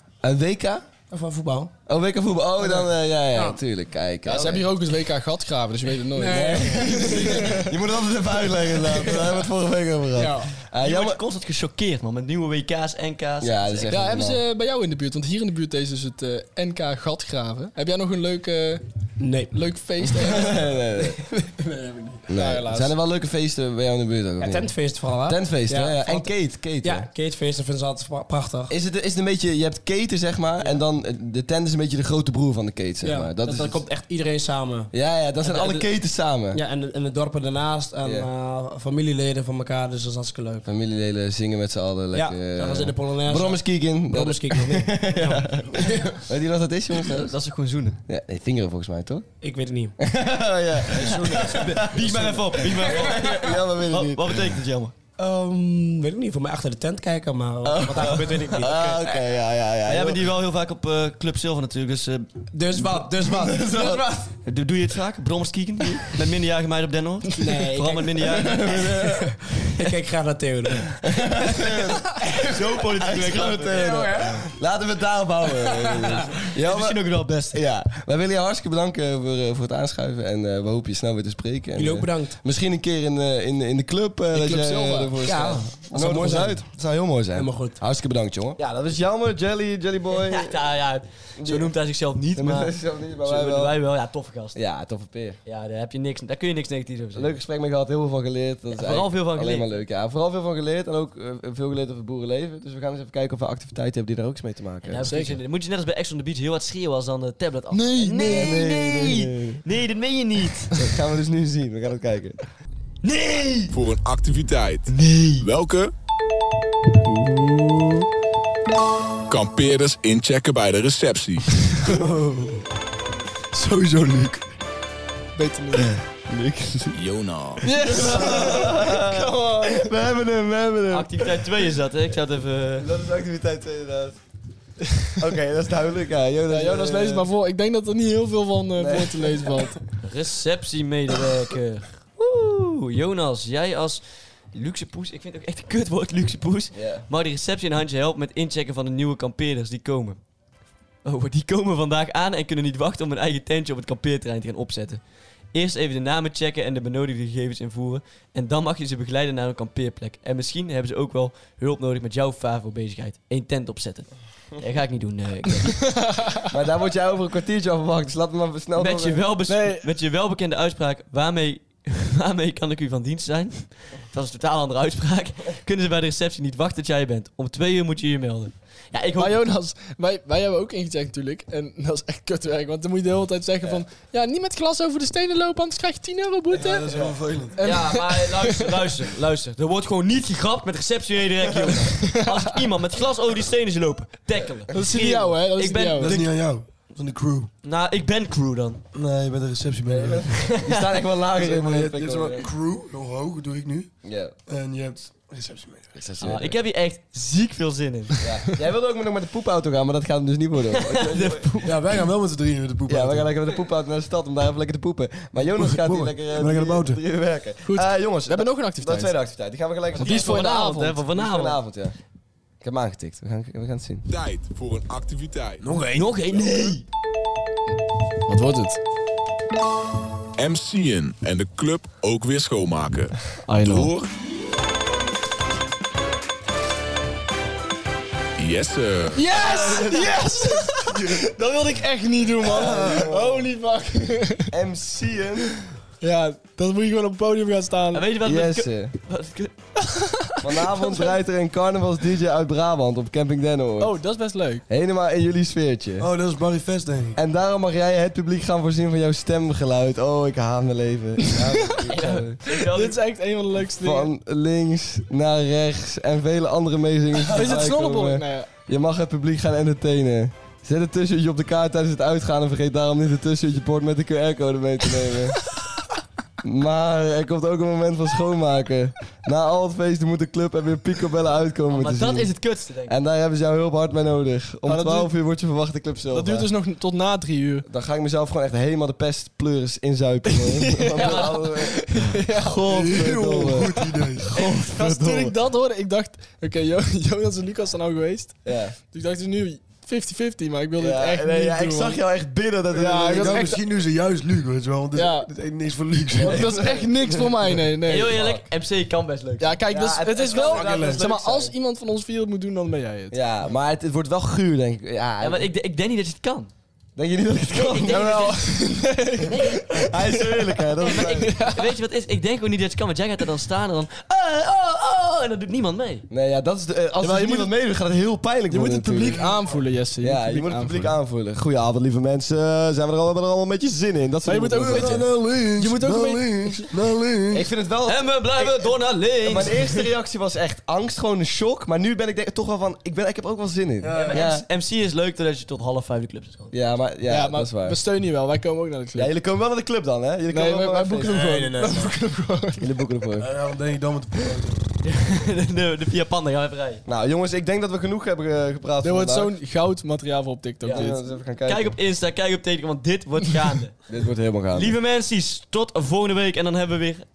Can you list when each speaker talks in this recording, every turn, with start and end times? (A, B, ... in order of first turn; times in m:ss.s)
0:00.2-0:00.9 A
0:01.1-0:01.7 B
0:01.9-0:04.7 A
0:02.6-0:03.6 B
0:04.2-0:07.7 C
0:06.2-0:07.4 B
0:06.2-0:11.2 A
0:09.0-0:09.3 B
0:10.1-0:10.5 B
0:10.8-0:13.9 D
0:13.4-0:14.4 A
0:13.9-0:18.8 C
0:19.2-0:19.5 B
0:19.5-0:20.5 C
0:20.2-0:21.2 A
0:21.0-0:22.2 B
0:22.3-0:24.7 A
0:22.3-0:22.9 C
0:24.4-0:28.7 B
0:25.3-0:27.1 A
0:28.7-0:33.8 A
0:33.0-0:34.9 B
0:34.9-0:36.6 A
0:35.4-0:35.7 B
0:36.5-0:40.6 B
0:40.6-0:47.4 A
0:42.1-0:46.2 B
0:47.0-0:48.0 D
0:48.1-0:49.3 A
0:49.4-0:50.0 B
0:50.0-0:54.6 A
0:50.9-0:54.9 D
0:55.2-0:59.0 B
0:57.6-1:00.3 A
0:59.9-1:02.3 D
1:02.5-1:04.3 B
1:03.1-1:04.2 A
1:04.4-1:08.9 D
1:07.4-1:11.1 B
1:08.2-1:09.4 A
1:11.0-1:12.2 A
1:12.2-1:12.6 B
1:12.3-1:14.1 D
1:12.8-1:30.6 A
1:13.7-1:14.5 B
1:15.6-1:16.2 B
1:16.5-1:17.6 D
1:21.8-1:22.4 B
1:24.3-1:25.2 C
1:25.2-1:26.6 B
1:27.3-1:27.8 B
1:30.1-1:34.6 D
1:31.4-1:31.7 A
1:32.4-1:33.8 A
1:34.6-1:35.4 A
1:35.5-1:37.3 D
1:37.1-1:45.1 A
1:38.8-1:39.8 D
1:44.8-1:50.9 D
1:45.0-1:45.4 C
1:47.7-1:48.6 C
1:48.3-1:49.6 A
1:50.7-1:52.4 A
1:53.0-1:53.8 D
1:53.7-1:55.9 E
1:54.9-1:55.5 D
1:57.1-1:57.6 A
1:59.3-2:01.6 E
2:01.8-2:02.6 F
2:03.5-2:04.4 F
2:05.4-2:06.0 C
2:06.3-2:07.0 A
2:06.9-2:07.7 E
2:07.6-2:09.8 C
2:07.7-2:11.7 A
2:10.9-2:12.9 D
2:12.8-2:14.2 A
2:15.2-2:17.3 A
2:16.5-2:19.8 C
2:18.8-2:19.6 A
2:20.0-2:30.2 D
2:26.7-2:27.1 A
2:31.0-2:35.0 D
2:35.5-2:45.9 D
2:46.5-2:49.2 A
2:48.8-2:59.4 D
2:49.5-2:49.8 C
2:59.2-3:08.9 C
3:06.5-3:07.6 F
3:07.6-3:16.3 D
3:12.1-3:12.5 C
3:14.7-3:16.2 C
3:16.0-3:17.5 F
3:17.6-3:18.8 D
3:19.0-3:20.3 F
3:19.9-3:22.5 A
3:20.3-3:20.9 D
3:21.3-3:23.9 F
3:24.0-3:24.4 A
3:24.5-3:25.9 F
3:26.0-3:26.6 A
3:26.2-3:28.2 D
3:28.2-3:31.5 A
3:30.7-3:32.0 D
3:31.6-3:33.3 F
3:32.9-3:42.0 A
3:35.5-3:37.0 F
3:37.7-3:39.1 C
3:40.0-3:41.6 D
3:40.0-3:40.5 C
3:42.6-3:44.1 A
3:44.1-3:45.8 E
3:45.6-3:46.1 F
3:45.9-3:46.8 D
3:48.3-3:48.8 C
3:50.4-3:54.1 E
3:53.5-3:53.9 C
3:58.4-3:59.2 E
3:59.1-4:04.5 C
3:59.3-4:00.2 A
4:00.8-4:01.2 F
4:02.4-4:03.5 A
4:02.7-4:03.0 F
4:04.5-4:05.5 A
4:06.0-4:08.1 C
4:07.9-4:09.5 D
4:08.2-4:09.0 A
4:09.9-4:10.4 C
4:10.4-4:14.0 A
4:13.8-4:14.6 C
4:14.7-4:16.1 A
4:16.0-4:17.2 F
4:17.2-4:22.4 A
4:21.8-4:23.0 D
4:22.5-4:24.1 C
4:23.8-4:35.5 A
4:27.3-4:28.5 C
4:36.4-4:42.3 A
4:41.7-4:43.0 D
4:42.9-4:46.5 A
4:44.6-4:45.1 C
4:46.1-4:47.7 C
4:47.7-4:55.4 A
4:50.4-4:52.8 C
4:51.0-4:51.6 D
4:52.6-4:54.3 F
4:54.3-5:02.0 C
4:58.4-4:58.8 A
5:00.8-5:03.6 A
5:02.7-5:03.6 C
5:03.1-5:06.6 F
5:04.9-5:05.3 C
5:06.1-5:08.2 C
5:06.2-5:07.5 A
5:07.9-5:09.6 D
5:08.1-5:08.4 A
5:09.4-5:13.2 C
5:09.7-5:11.5 A
5:10.2-5:11.4 D
5:10.4-5:11.0 F
5:13.1-5:15.5 A
5:15.2-5:16.5 D
5:17.0-5:18.5 A
5:17.5-5:18.4 D
5:17.9-5:21.8 C
5:19.7-5:21.4 A
5:20.8-5:26.1 D
5:26.1-5:29.3 A
5:27.0-5:27.5 C
5:28.5-5:30.9 C
5:29.1-5:29.6 F
5:30.0-5:35.1 A
5:34.2-5:36.7 C
5:34.6-5:37.5 F
5:37.3-5:44.4 A
5:37.9-5:39.9 D
5:43.8-5:44.3 F
5:43.9-5:46.6 D
5:46.5-5:47.8 A
5:47.1-5:49.1 C
5:49.0-5:51.7 A
5:50.3-5:52.8 C
5:51.1-5:51.8 B
5:52.6-5:53.3 A
5:53.2-5:54.6 F
5:54.8-5:56.8 D
5:56.9-5:59.3 A
5:58.8-6:01.0 C
6:00.6-6:00.9 D
6:00.7-6:01.8 A
6:01.4-6:03.8 D
6:03.9-6:04.7 A
6:04.5-6:07.0 D